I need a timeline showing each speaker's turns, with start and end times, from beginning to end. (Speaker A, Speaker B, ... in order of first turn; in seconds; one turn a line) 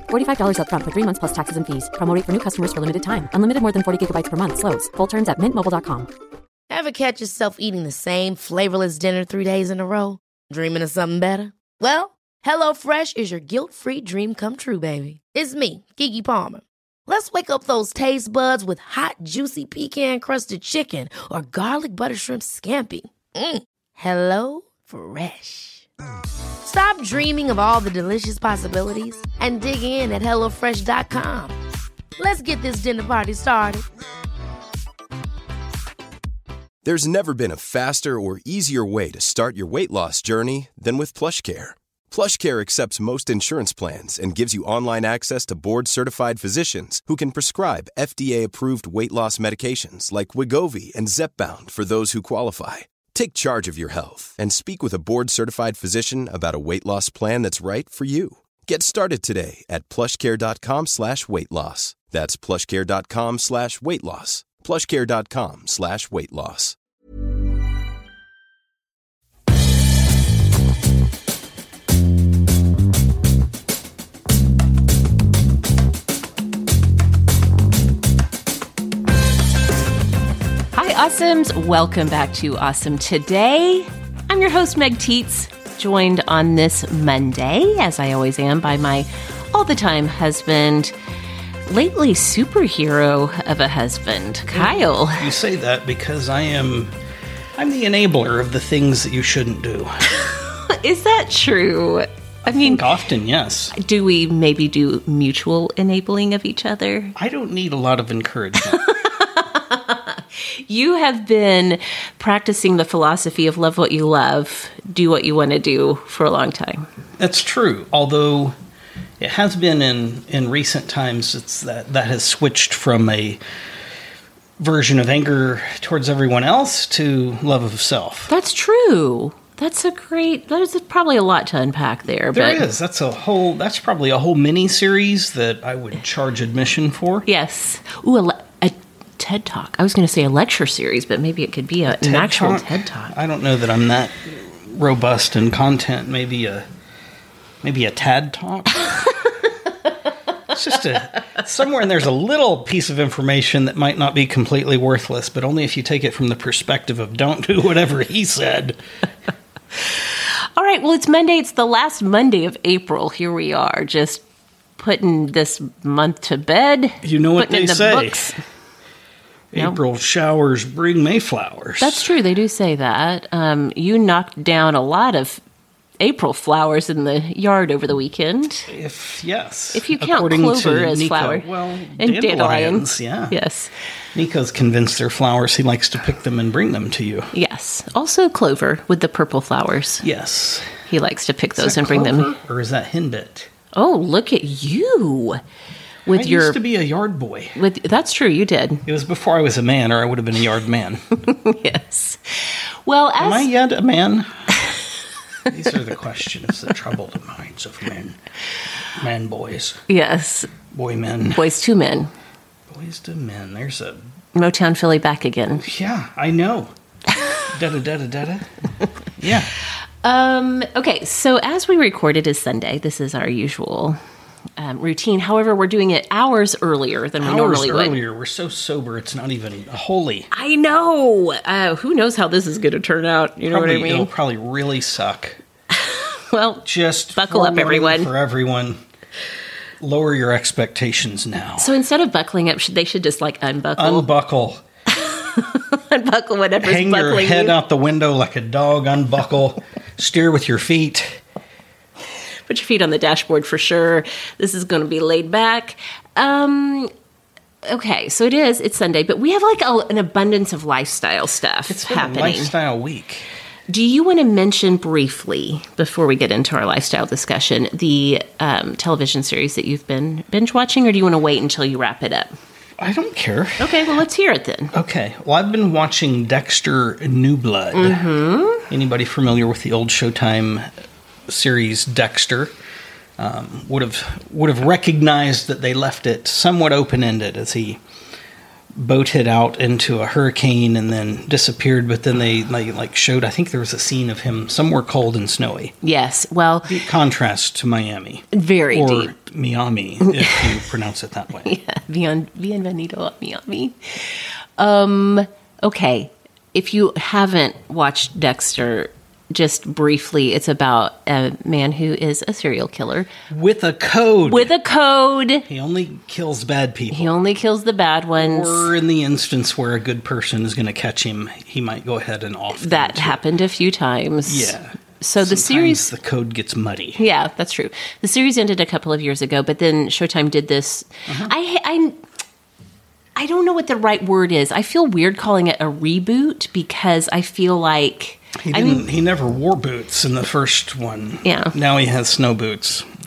Speaker A: 0.1-6.1
Speaker B: 6.7-25.9
Speaker B: 26.6-31.6
Speaker B: 32.2-33.9
Speaker C: 36.8-66.8
Speaker D: 80.7-90.9
Speaker D: 91.7-95.3
Speaker E: 94.5-96.9
Speaker E: 97.6-100.0
Speaker D: 100.1-102.8
Speaker E: 102.5-103.7
Speaker D: 103.8-107.2
Speaker E: 107.2-108.8
Speaker D: 108.7-116.9
Speaker E: 117.2-118.5
Speaker E: 119.2-123.4
Speaker E: 124.6-128.3
Speaker D: 128.3-132.6
Speaker E: 132.3-137.3
Speaker D: 137.3-143.1
Speaker E: 141.9-146.7
Speaker E: 147.6-149.2
Speaker E: 150.5-158.8
Speaker D: 160.6-164.2
Speaker D: 164.8-168.4
Speaker E: 167.0-168.3
Speaker E: 169.5-172.1
Speaker D: 171.8-175.4
Speaker D: 176.0-178.7
Speaker E: 178.7-183.4
Speaker D: 179.7-181.5
Speaker D: 182.0-183.7
Speaker E: 184.1-187.3
Speaker D: 187.3-190.1
Speaker E: 190.0-190.7
Speaker D: 190.9-192.4
Speaker E: 191.6-193.5
Speaker D: 193.7-195.4
Speaker D: 196.1-196.6
Speaker E: 196.1-197.6
Speaker D: 197.6-198.8
Speaker E: 198.9-201.0
Speaker D: 201.3-203.5
Speaker E: 203.2-204.7
Speaker E: 205.5-208.2
Speaker E: 209.0-209.8
Speaker D: 209.9-210.5
Speaker E: 210.7-211.5
Speaker D: 211.3-212.1
Speaker E: 212.7-214.0
Speaker D: 214.3-215.6
Speaker E: 215.6-216.7
Speaker E: 217.4-219.5
Speaker D: 220.0-224.0
Speaker D: 224.6-228.0
Speaker E: 227.2-230.3
Speaker D: 230.3-234.1
Speaker E: 233.5-235.4
Speaker D: 235.7-238.1
Speaker E: 236.7-238.8
Speaker E: 239.8-241.8
Speaker D: 241.6-244.1
Speaker E: 243.8-244.6
Speaker D: 245.0-247.6
Speaker E: 246.6-251.2
Speaker D: 252.5-256.9
Speaker D: 257.7-262.5
Speaker E: 261.7-263.3
Speaker D: 263.7-272.4
Speaker E: 272.8-273.9
Speaker D: 273.6-274.7
Speaker E: 274.7-278.1
Speaker D: 277.8-278.7
Speaker E: 278.7-280.7
Speaker E: 281.3-282.5
Speaker E: 283.2-287.8
Speaker E: 288.8-295.7
Speaker D: 295.8-296.7
Speaker E: 296.7-301.5
Speaker D: 298.3-299.1
Speaker D: 300.2-300.5
Speaker D: 301.4-313.1
Speaker E: 313.3-314.5
Speaker D: 314.3-315.5
Speaker E: 315.5-317.2
Speaker D: 316.9-318.7
Speaker E: 318.2-323.2
Speaker D: 322.5-325.9
Speaker E: 324.3-327.0
Speaker D: 327.0-332.0
Speaker D: 333.2-338.9
Speaker E: 338.4-342.9
Speaker D: 341.2-341.6